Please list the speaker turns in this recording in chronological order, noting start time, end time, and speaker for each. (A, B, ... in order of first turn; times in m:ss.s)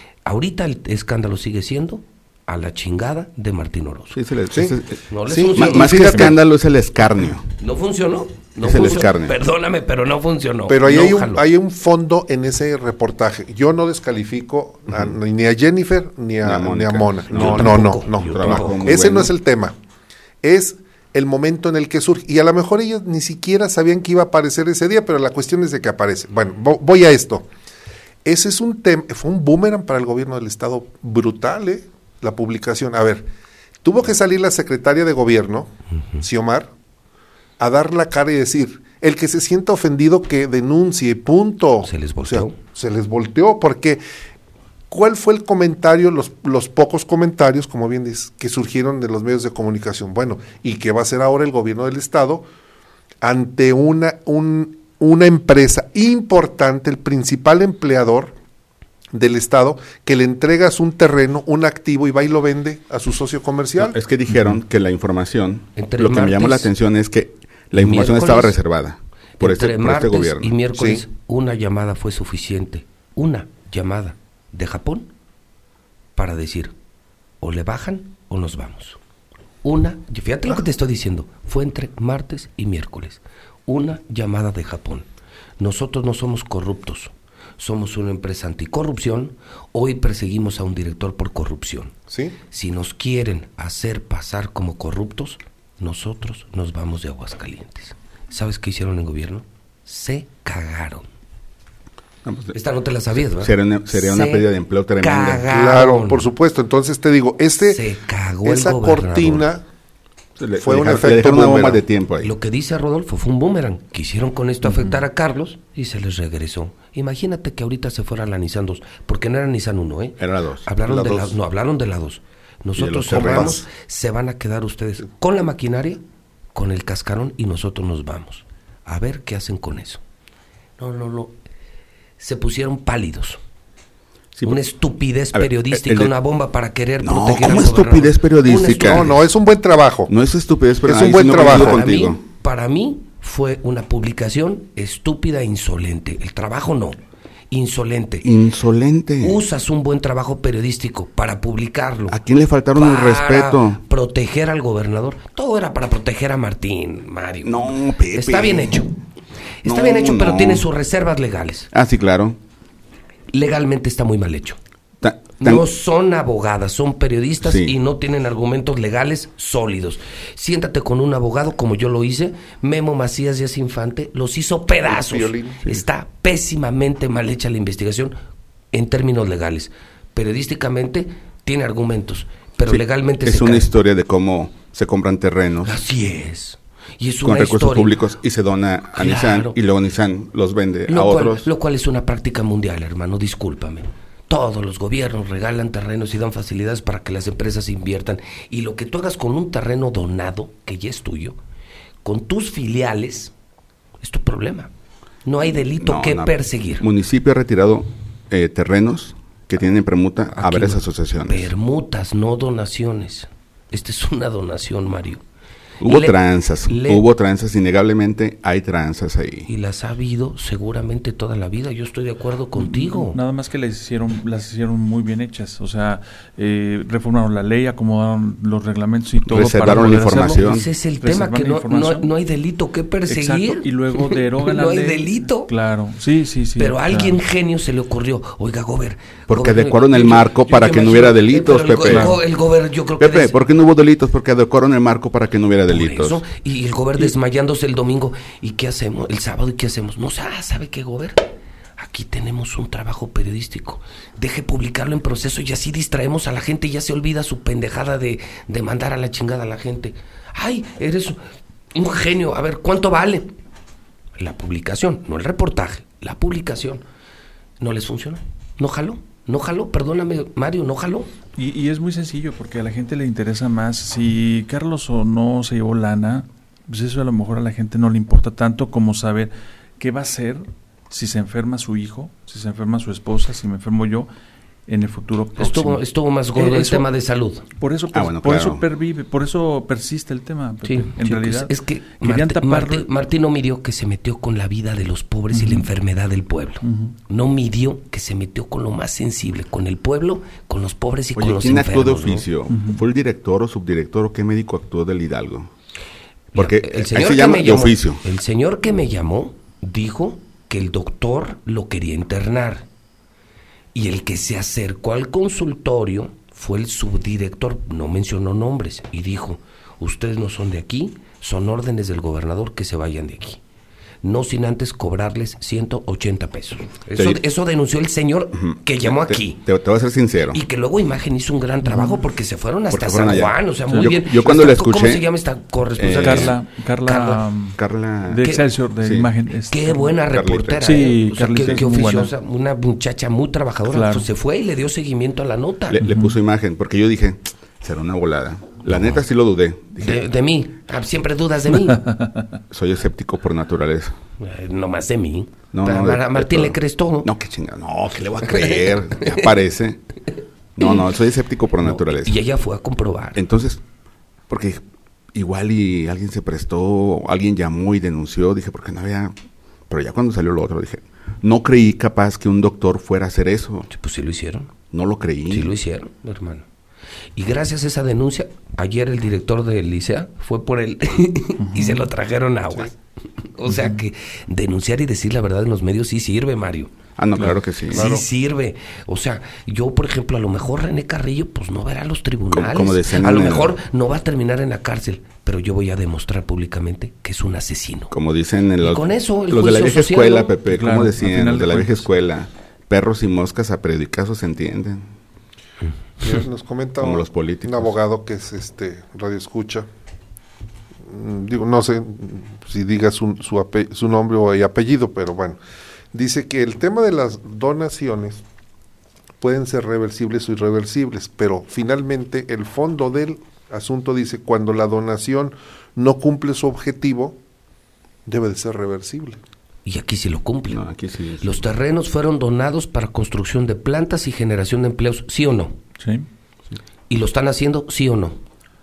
0:00.2-0:04.2 A
0:04.1-0:07.5 B
0:04.5-0:06.4 C
0:05.1-0:06.3 A
0:07.6-0:11.4 A
0:08.6-0:09.4 B
0:10.7-0:19.8 C
0:16.4-0:19.3 B
0:17.3-0:18.9 A
0:20.4-0:27.5 C
0:28.2-0:33.3 C
0:33.8-0:36.7 C
0:37.6-0:44.0 C
0:41.8-0:42.5 A
0:44.9-0:52.5 C
0:53.2-0:58.3 C
0:59.1-1:04.0 C
1:03.8-1:10.5 B
1:05.8-1:06.7 A
1:07.7-1:08.6 A
1:09.4-1:15.1 A
1:10.7-1:11.0 C
1:16.1-1:16.7 A
1:17.4-1:19.0 A
1:19.6-1:25.0 A
1:25.6-1:31.9 A
1:32.1-1:32.4 C
1:32.5-1:41.0 A
1:42.2-1:42.5 B
1:42.5-1:44.5 A
1:43.3-1:45.4 B
1:45.0-1:46.2 A
1:45.4-1:47.8 C
1:47.7-1:49.5 A
1:48.4-1:49.6 C
1:50.4-1:52.4 B
1:50.6-1:51.8 C
1:52.2-2:06.0 A
2:00.2-2:00.7 B
2:00.9-2:01.3 C
2:02.8-2:03.6 B
2:03.1-2:03.6 C
2:06.5-2:10.0 A
2:10.8-2:11.4 A
2:12.2-2:13.4 A
2:14.3-2:14.6 B
2:14.4-2:19.2 A
2:15.3-2:16.1 B
2:17.0-2:19.2 B
2:18.8-2:20.1 C
2:20.1-2:22.2 B
2:20.8-2:21.8 C
2:21.2-2:27.0 A
2:27.5-2:28.3 A
2:28.2-2:29.4 B
2:29.2-2:32.2 A
2:32.1-2:33.8 B
2:32.7-2:39.0 A
2:37.4-2:38.8 B
2:39.6-2:41.7 A
2:39.6-2:40.7 B
2:41.7-2:42.4 B
2:43.3-2:44.6 A
2:45.0-2:45.6 B
2:45.4-2:58.1 A
2:47.4-2:47.7 B
2:54.8-2:55.6 C
2:58.7-3:03.7 A
3:02.7-3:05.8 B
3:05.6-3:08.0 A
3:07.2-3:11.5 B
3:08.9-3:09.6 A
3:10.9-3:21.4 A
3:22.0-3:23.3 A
3:24.0-3:24.7 A
3:25.2-3:26.8 A
3:25.8-3:31.5 B
3:30.3-3:35.2 A
3:35.8-3:39.5 B
3:35.8-3:37.0 A
3:39.5-3:43.2 A
3:42.6-3:52.1 D
3:49.2-3:50.7 B
3:50.0-3:55.5 A
3:53.1-3:57.2 D
3:56.6-4:03.3 A
3:59.3-4:02.2 B
4:01.8-4:02.2 D
4:03.0-4:06.2 B
4:05.7-4:21.2 A
4:21.7-4:23.3 A
4:24.2-4:26.8 A
4:27.6-4:31.1 A
4:31.4-4:44.1 D
4:44.7-4:45.8 D
4:45.4-4:47.4 A
4:46.3-4:46.9 D
4:47.6-4:52.9 D
4:47.9-4:48.6 B
4:50.6-5:02.2 A
4:55.3-4:55.7 D
4:56.6-4:57.0 D
5:01.1-5:05.5 B
5:02.5-5:02.8 D
5:06.3-5:08.0 B
5:06.4-5:12.7 A
5:13.7-5:23.4 A
5:24.0-5:29.4 A
5:27.0-5:27.2 B
5:28.4-5:30.4 B
5:30.3-5:37.2 A
5:31.6-5:32.0 D
5:32.7-5:35.0 B
5:35.8-5:36.3 B
5:36.0-5:40.0 D
5:37.6-5:38.2 B
5:38.8-5:39.1 B
5:39.5-5:45.8 A
5:40.1-5:40.7 B
5:40.6-5:42.1 D
5:43.7-5:44.1 D
5:45.7-5:50.1 B
5:45.8-5:46.1 D
5:49.8-5:51.8 A
5:51.8-5:52.2 D
5:52.5-5:54.0 B
5:54.2-5:57.1 A
5:55.5-5:59.8 B
5:58.2-5:59.3 A
6:00.6-6:02.2 B
6:01.6-6:03.2 A
6:03.2-6:03.6 B
6:04.3-6:04.6 B
6:05.1-6:09.1 B
6:09.7-6:13.7 B
6:13.7-6:14.5 A
6:14.7-6:15.5 B
6:15.3-6:16.5 A
6:17.2-6:26.7 A
6:21.4-6:21.8 D
6:27.0-6:27.9 B
6:27.7-6:37.9 A
6:27.7-6:28.0 C
6:32.3-6:33.6 B
6:37.9-6:44.9 B
6:38.6-6:40.3 A
6:40.5-6:41.9 D
6:46.0-6:49.7 C
6:46.8-6:47.7 B
6:50.9-6:55.4 C
6:55.9-6:58.2 C
6:59.2-7:07.2 C
7:08.0-7:09.2 C
7:09.6-7:10.6 A
7:10.5-7:11.4 B
7:11.2-7:15.6 A
7:15.8-7:16.0 D
7:16.9-7:18.2 A